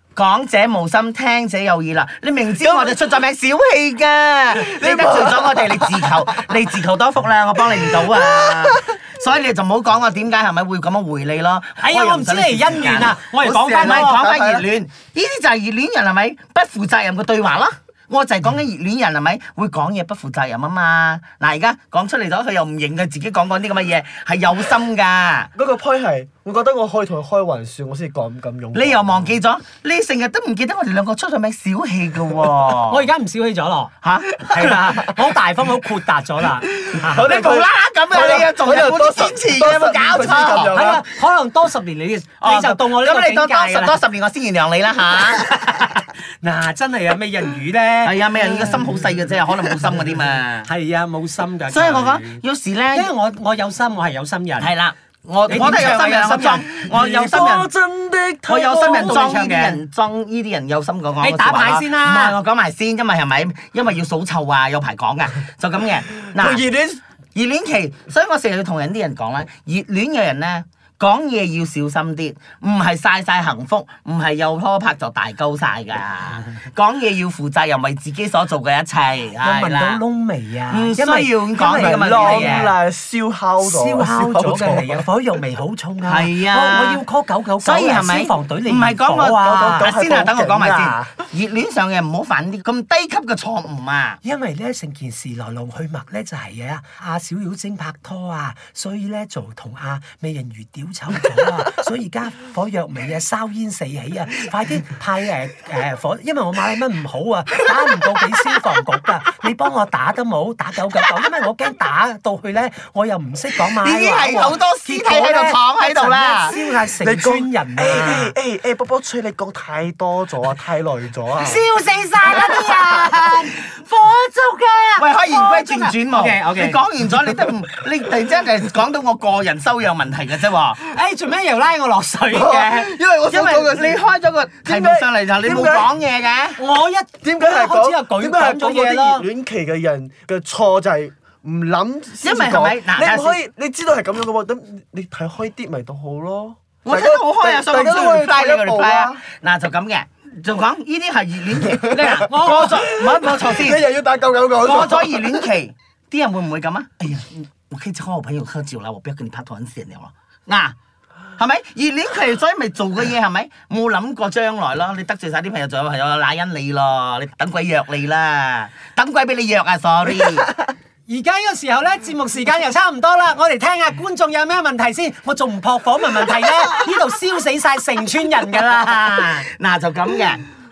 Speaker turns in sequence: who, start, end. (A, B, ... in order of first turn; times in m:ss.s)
0:00.1-0:25.5 A
0:02.6-0:03.0 B
0:04.5-0:06.2 B
0:07.9-0:08.8 B
0:11.8-0:14.2 C
0:13.4-0:14.7 B
0:25.5-0:29.4 B
0:28.7-0:33.0 A
0:32.9-0:37.4 C
0:34.0-0:35.2 A
0:36.9-0:40.8 A
0:37.0-0:41.0 B
0:40.7-0:44.0 C
0:42.4-0:45.9 A
0:46.4-0:48.8 C
0:48.0-0:50.7 A
0:50.6-0:52.4 C
0:51.7-0:53.1 A
0:52.9-0:54.7 C
0:54.6-0:57.7 A
0:55.5-0:57.5 C
0:56.8-0:59.4 B
0:58.5-1:06.6 A
0:58.6-0:59.8 C
1:01.2-1:02.4 C
1:06.3-1:07.0 B
1:07.3-1:20.0 A
1:19.4-1:22.7 C
1:20.7-1:22.7 A
1:21.7-1:25.0 B
1:23.6-1:29.9 C
1:26.0-1:27.0 A
1:27.6-1:34.2 A
1:29.4-1:31.1 B
1:34.2-1:58.3 C
1:53.8-1:56.6 A
1:57.0-2:01.6 B
2:01.4-2:06.8 C
2:05.0-2:10.8 A
2:10.8-2:12.9 C
2:12.3-2:14.0 B
2:13.3-2:16.6 A
2:14.6-2:15.9 B
2:16.6-2:19.3 C
2:17.2-2:29.2 B
2:22.2-2:23.4 A
2:26.8-2:33.8 A
2:31.8-2:35.5 B
2:32.1-2:32.8 C
2:34.6-2:40.7 A
2:41.4-2:50.5 A
2:51.1-2:59.4 C
2:58.5-3:00.4 A